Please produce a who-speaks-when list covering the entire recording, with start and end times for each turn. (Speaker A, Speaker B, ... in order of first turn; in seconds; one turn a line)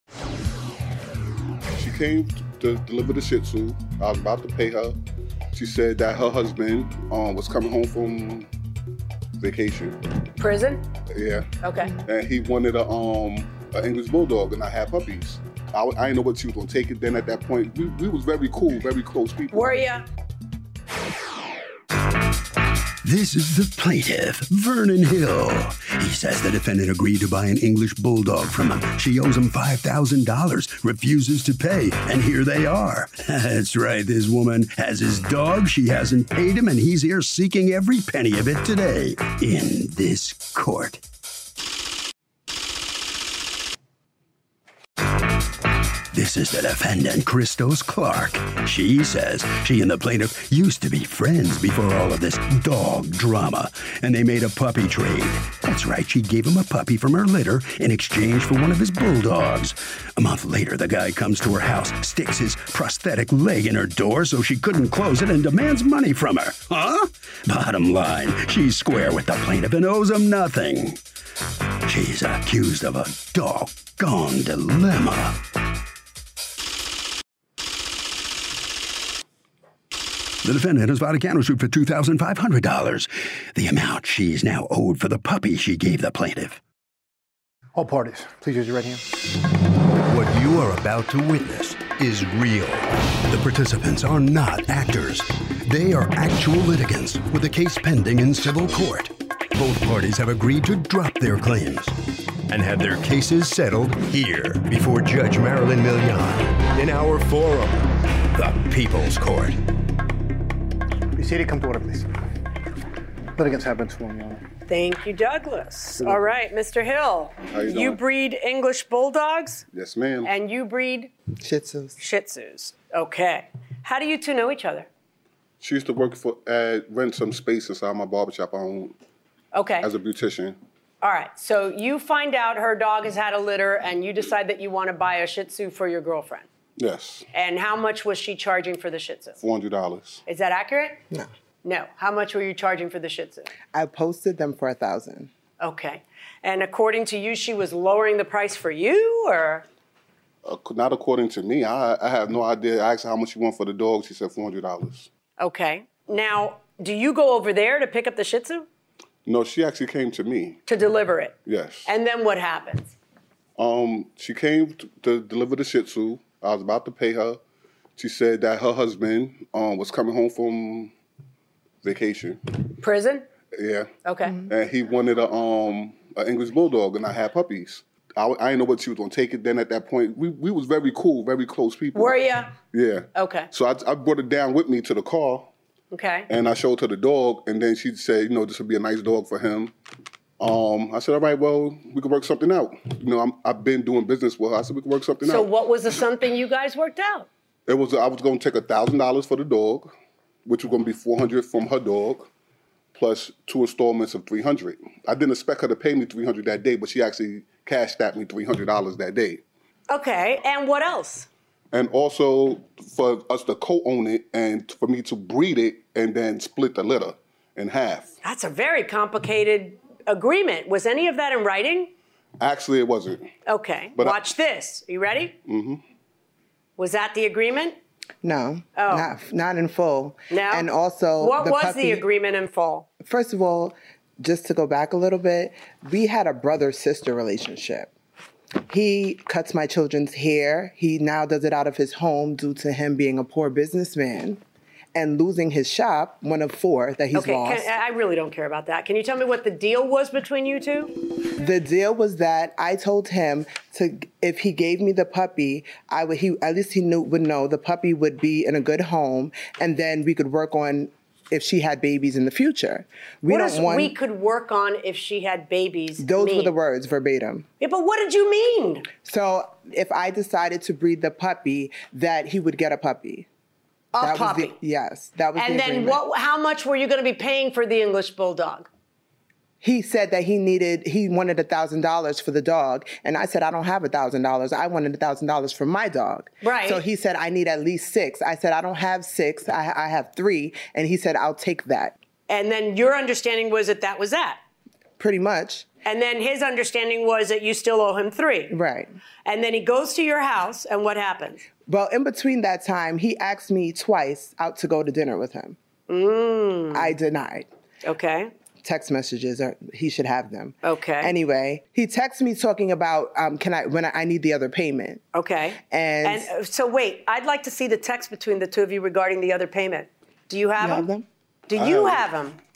Speaker A: 1.7-5.0
Speaker A: 5.5-8.5
Speaker A: 9.4-10.0
Speaker B: 10.4-10.8
Speaker A: 11.1-11.5
Speaker B: 11.6-11.9
Speaker A: 12.0-19.8
Speaker B: 19.5-20.0
Speaker C: 23.0-41.0
Speaker C: 46.1-71.0
Speaker C: 71.8-75.4
Speaker C: 80.4-86.6
Speaker D: 87.7-89.0
Speaker C: 90.0-109.6
Speaker D: 111.1-112.1
Speaker D: 113.3-114.4
Speaker B: 114.7-119.6
Speaker A: 117.5-118.0
Speaker A: 119.7-120.3
Speaker B: 120.2-121.1
Speaker E: 121.4-122.0
Speaker B: 122.0-124.9
Speaker A: 125.6-128.9
Speaker B: 129.5-129.9
Speaker A: 129.8-130.6
Speaker B: 131.0-136.4
Speaker A: 136.8-137.2
Speaker B: 137.3-139.4
Speaker A: 139.4-140.2
Speaker B: 140.3-141.0
Speaker B: 141.6-143.5
Speaker E: 143.7-145.3
Speaker B: 145.6-149.7
Speaker A: 150.4-155.1
Speaker B: 155.4-158.7
Speaker A: 159.2-160.6
Speaker B: 160.7-162.9
Speaker A: 161.4-161.9
Speaker A: 163.6-167.4
Speaker A: 168.0-170.9
Speaker A: 171.8-172.4
Speaker B: 172.8-173.2
Speaker A: 173.5-173.9
Speaker B: 174.0-174.3
Speaker A: 174.5-182.2
Speaker B: 181.9-182.5
Speaker A: 182.7-185.5
Speaker B: 183.1-183.5
Speaker B: 185.9-186.3
Speaker A: 186.3-189.7
Speaker A: 190.4-195.5
Speaker B: 195.2-197.3
Speaker A: 197.7-199.9
Speaker A: 200.4-202.3
Speaker A: 202.9-209.4
Speaker B: 209.9-211.3
Speaker A: 211.7-218.1
Speaker B: 218.2-221.9
Speaker A: 222.4-223.3
Speaker B: 223.4-225.3
Speaker A: 225.5-225.8
Speaker B: 226.8-227.8
Speaker E: 228.2-232.0
Speaker B: 228.8-229.1
Speaker B: 230.3-232.8
Speaker E: 233.0-237.9
Speaker E: 238.7-244.4
Speaker E: 244.9-247.7
Speaker B: 247.1-250.9
Speaker E: 251.4-263.9
Speaker B: 263.3-266.5
Speaker E: 266.0-267.4
Speaker B: 267.6-268.9
Speaker E: 269.0-273.3
Speaker B: 273.9-274.6
Speaker E: 274.0-276.0
Speaker B: 275.4-278.7
Speaker E: 279.6-291.9
Speaker B: 286.4-286.8
Speaker B: 292.3-294.4
Speaker E: 295.0-295.7
Speaker B: 295.8-298.5
Speaker E: 298.5-298.9
Speaker B: 299.2-301.4
Speaker E: 301.6-305.6
Speaker B: 305.9-306.9
Speaker E: 306.7-307.5
Speaker B: 307.8-308.3
Speaker E: 308.6-315.0
Speaker B: 310.6-311.1
Speaker B: 315.1-320.9
Speaker E: 315.6-316.3
Speaker E: 320.6-321.1
Speaker B: 321.5-322.4
Speaker A: 321.5-322.0